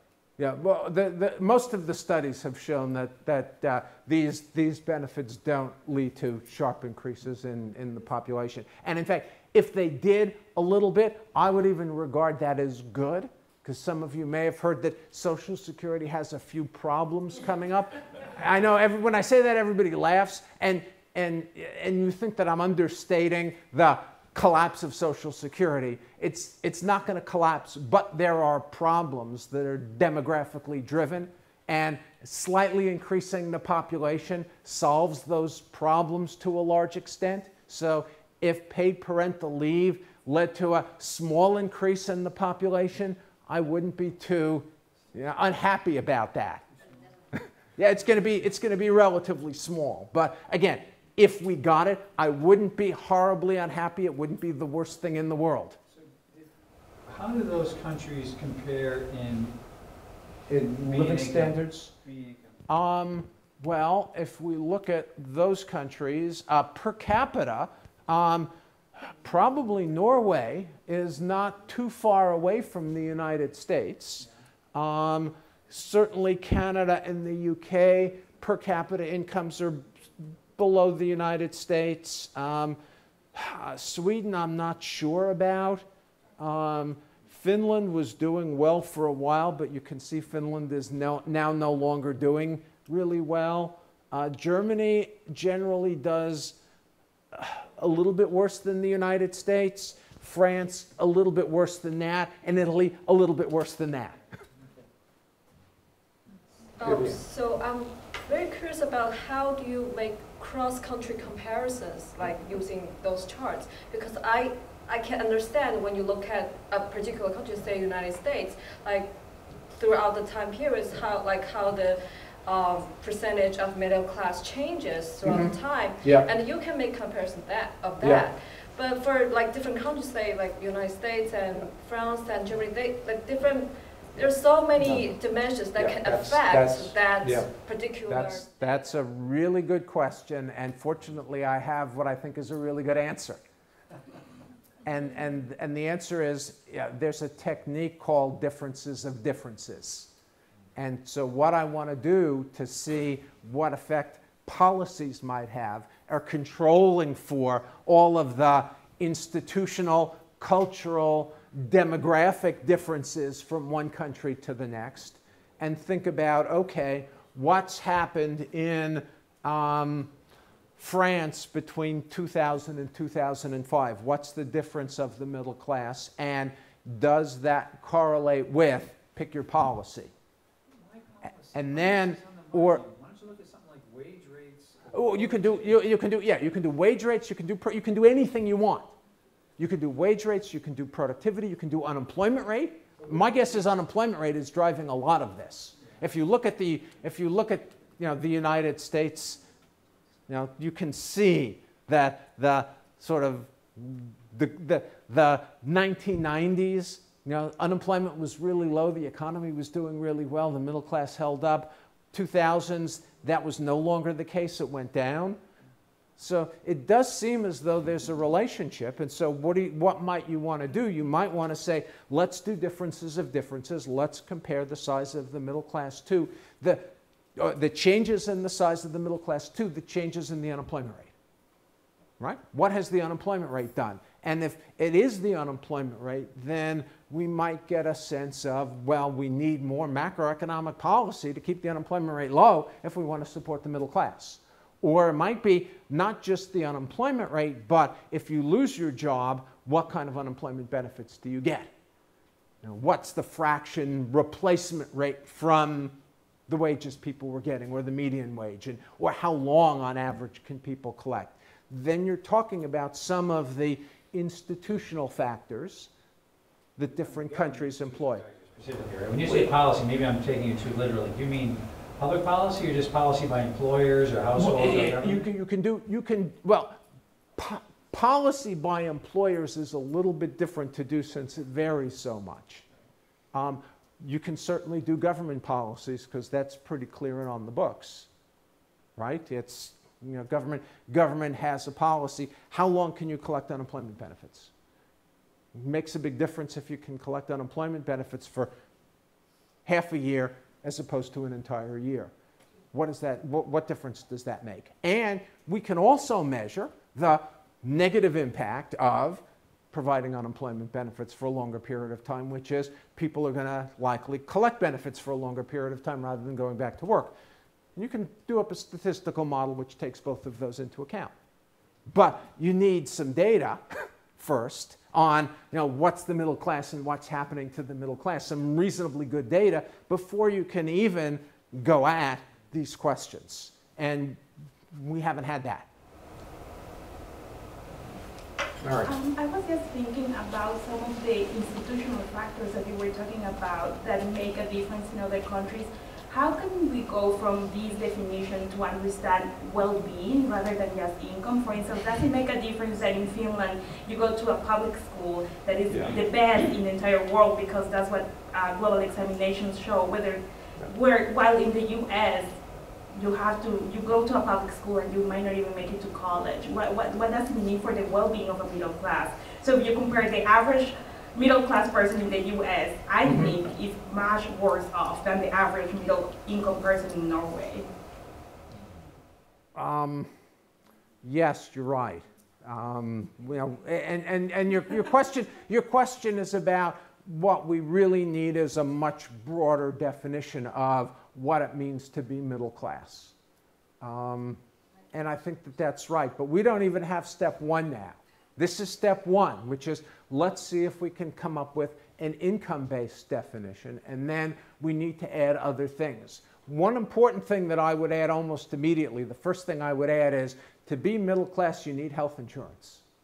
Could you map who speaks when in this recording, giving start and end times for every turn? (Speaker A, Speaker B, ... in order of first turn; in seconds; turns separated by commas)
Speaker A: 0.4-46.6, Speaker A: 47.8-55.8, Speaker B: 55.9-56.5, Speaker B: 57.0-59.6, Speaker A: 60.5-61.9, Speaker B: 60.5-62.6, Speaker A: 62.7-68.5, Speaker A: 69.2-82.8, Speaker A: 83.3-85.8, Speaker A: 86.4-96.6, Speaker A: 97.3-104.2, Speaker C: 106.8-119.1, Speaker A: 106.8-107.2, Speaker C: 119.7-138.9, Speaker A: 125.2-126.3, Speaker A: 128.0-128.3, Speaker A: 134.1-135.1, Speaker A: 135.8-137.5, Speaker A: 138.0-143.4, Speaker A: 144.8-150.1, Speaker A: 150.8-170.1, Speaker A: 170.8-180.1, Speaker B: 180.7-185.8, Speaker A: 181.5-182.8, Speaker A: 184.9-188.9, Speaker A: 189.6-199.4, Speaker B: 193.0-193.4, Speaker A: 200.3-215.4, Speaker A: 216.2-231.1, Speaker A: 232.2-251.7, Speaker A: 252.6-255.9, Speaker A: 256.5-265.9, Speaker A: 266.8-268.2, Speaker B: 266.9-275.2, Speaker A: 274.4-276.8, Speaker A: 277.4-282.6, Speaker A: 283.3-288.1, Speaker A: 289.0-294.5, Speaker A: 295.5-298.5, Speaker A: 299.6-302.1, Speaker A: 302.7-317.1, Speaker A: 317.8-321.1, Speaker A: 321.9-335.7, Speaker A: 338.6-338.9, Speaker D: 338.8-362.4, Speaker A: 355.7-356.0, Speaker D: 362.9-377.6, Speaker A: 373.0-373.4, Speaker A: 379.5-380.1, Speaker A: 381.0-393.1, Speaker A: 393.8-394.4, Speaker A: 394.9-412.8